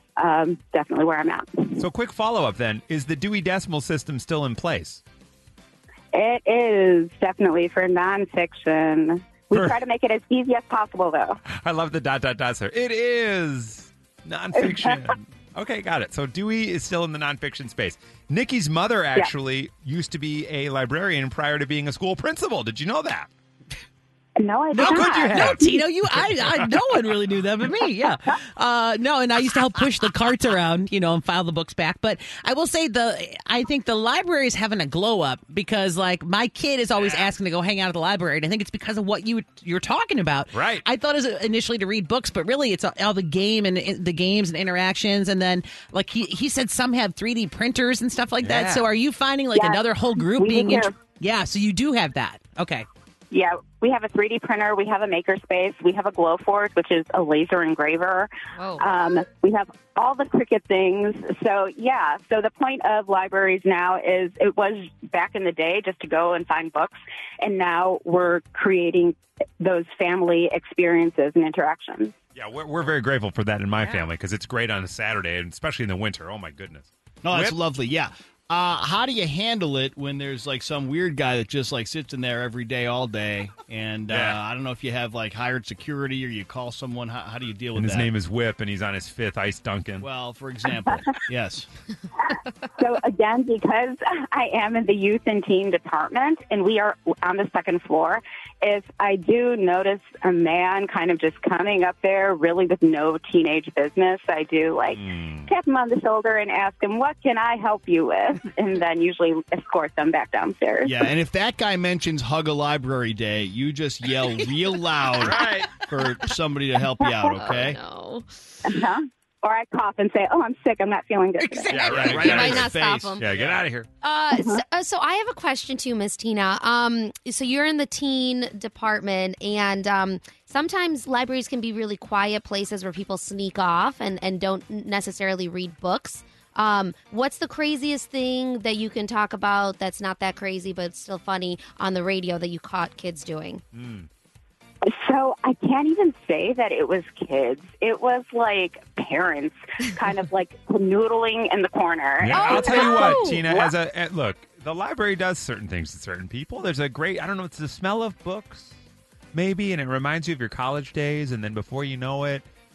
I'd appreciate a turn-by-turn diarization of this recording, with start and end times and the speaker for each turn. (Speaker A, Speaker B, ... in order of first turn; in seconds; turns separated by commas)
Speaker A: 0.2-1.8, Speaker B: 1.8-5.0, Speaker A: 6.1-11.4, Speaker B: 11.5-23.3, Speaker A: 14.6-15.0, Speaker A: 24.4-25.7, Speaker C: 24.7-52.9, Speaker B: 24.8-26.7, Speaker B: 40.5-40.9, Speaker B: 48.4-48.9, Speaker A: 49.5-50.9, Speaker A: 53.3-58.3, Speaker D: 58.6-58.9, Speaker A: 58.8-72.1, Speaker B: 72.4-77.6, Speaker E: 77.2-88.1, Speaker B: 84.1-84.4, Speaker B: 87.8-90.1, Speaker E: 90.0-91.7, Speaker A: 92.8-111.0, Speaker B: 104.9-105.5, Speaker E: 110.8-117.8, Speaker B: 115.2-115.7, Speaker C: 115.8-116.3, Speaker D: 117.3-118.3, Speaker A: 118.7-121.8, Speaker C: 121.4-122.0, Speaker B: 121.7-123.9, Speaker E: 121.8-123.6, Speaker D: 121.8-123.3, Speaker D: 124.0-143.6, Speaker A: 124.3-124.6, Speaker B: 143.7-144.1, Speaker A: 144.9-153.7, Speaker B: 152.2-158.7, Speaker D: 152.3-153.4, Speaker B: 159.3-162.4